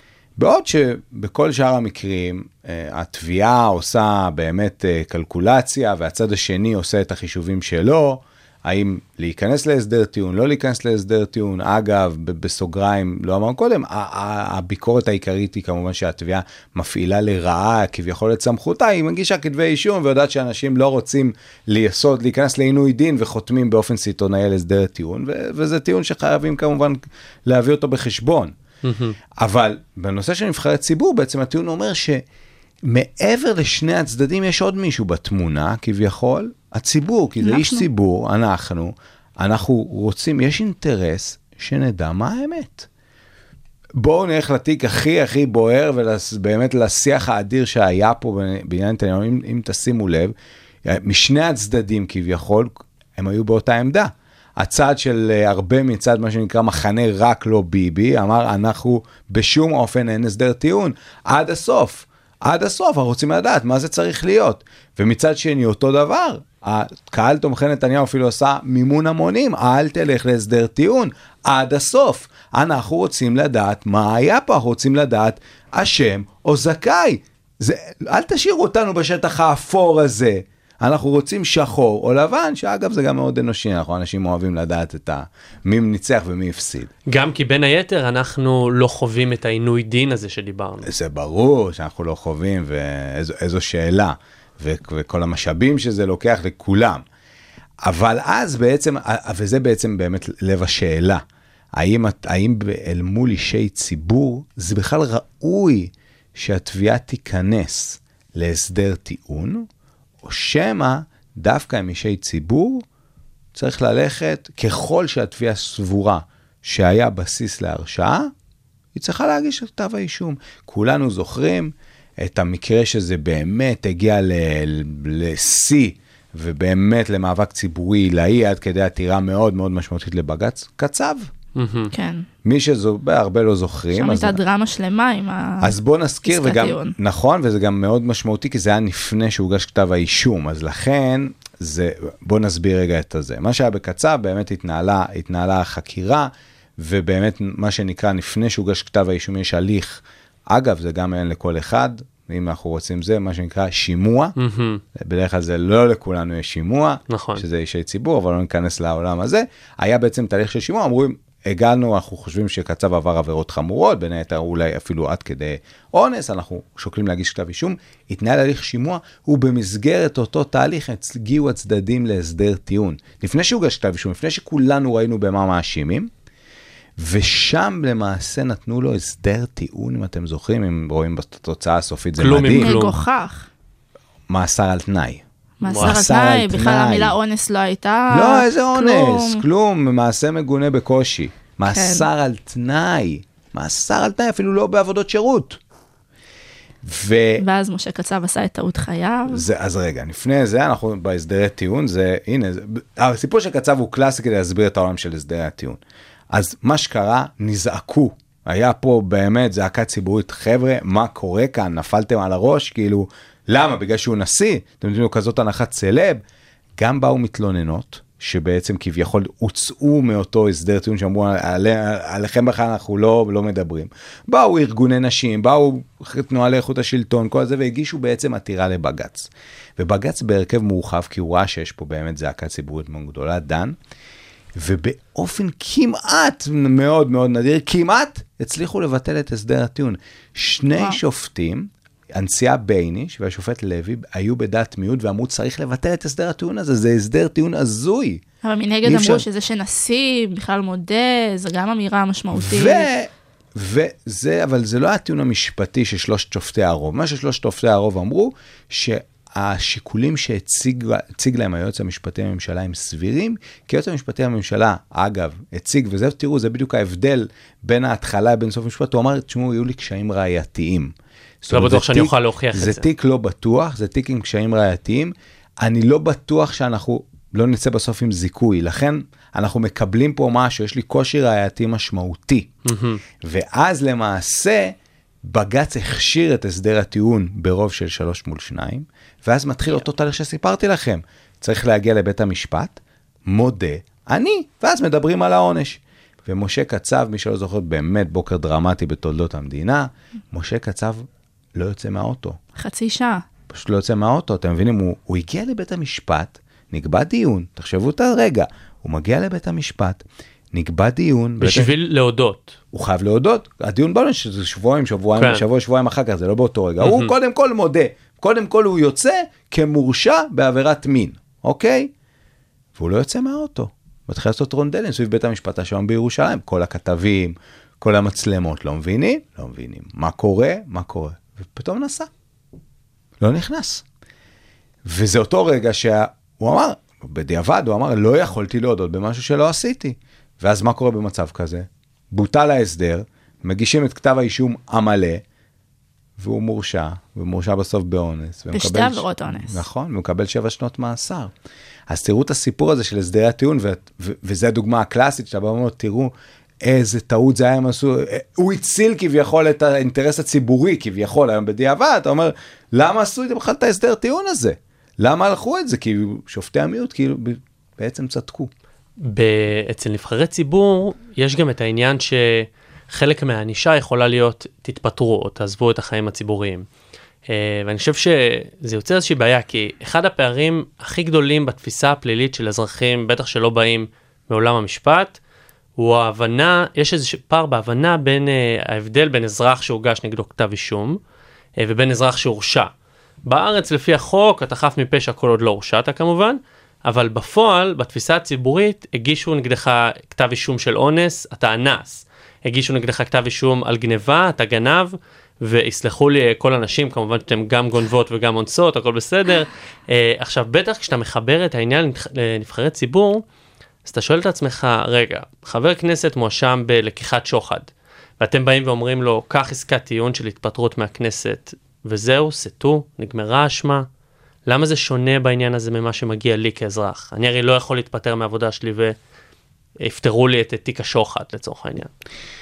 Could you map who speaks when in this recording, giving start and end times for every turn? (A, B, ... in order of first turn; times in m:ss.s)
0:00.4-0:28.5 A
0:28.8-0:29.2 B
0:29.4-0:32.2 A
0:32.8-0:42.9 A
0:37.4-0:37.9 C
0:44.0-0:50.3 A
0:50.9-1:26.9 A
1:27.1-1:30.9 B
1:30.8-1:37.0 A
1:37.8-1:41.2 A
1:41.8-1:49.7 A
1:50.2-1:52.8 A
1:53.6-1:58.3 A
1:59.0-2:11.3 A
2:11.6-2:11.9 B
2:11.9-2:12.2 C
2:12.4-2:14.4 A
2:13.9-2:16.9 C
2:15.6-2:34.4 A
2:34.4-2:34.8 B
2:35.0-2:56.1 A
2:37.1-2:37.4 B
2:57.0-3:02.7 A
3:02.2-3:03.0 B
3:02.6-3:03.5 C
3:04.3-3:05.2 A
3:05.6-3:09.4 C
3:05.7-3:06.0 B
3:05.8-3:07.2 A
3:08.1-3:15.6 A
3:11.7-3:12.1 C
3:16.8-3:17.4 A
3:17.4-3:19.5 C
3:19.3-3:25.8 A
3:26.3-3:36.2 A
3:36.8-3:53.8 A
3:54.6-4:08.2 A
4:08.4-4:12.9 C
4:08.8-4:09.3 A
4:12.3-4:42.5 A
4:31.5-4:32.9 B
4:42.6-4:43.0 B
4:43.2-5:02.4 A
5:02.6-5:03.2 C
5:03.5-5:11.7 A
5:11.4-5:12.6 B
5:12.7-5:21.9 A
5:15.2-5:15.4 B
5:16.8-5:17.1 B
5:22.8-5:32.1 A
5:33.2-5:33.8 A
5:34.8-5:45.2 A
5:46.2-5:51.3 A
5:48.5-5:49.6 C
5:51.9-6:08.5 A
6:09.0-6:16.7 B
6:17.3-6:25.2 B
6:25.8-6:31.0 B
6:31.6-6:32.7 B
6:33.3-6:53.2 B
6:53.8-6:57.7 B
6:58.2-7:03.8 B
7:04.5-7:09.0 B
7:09.8-7:11.9 B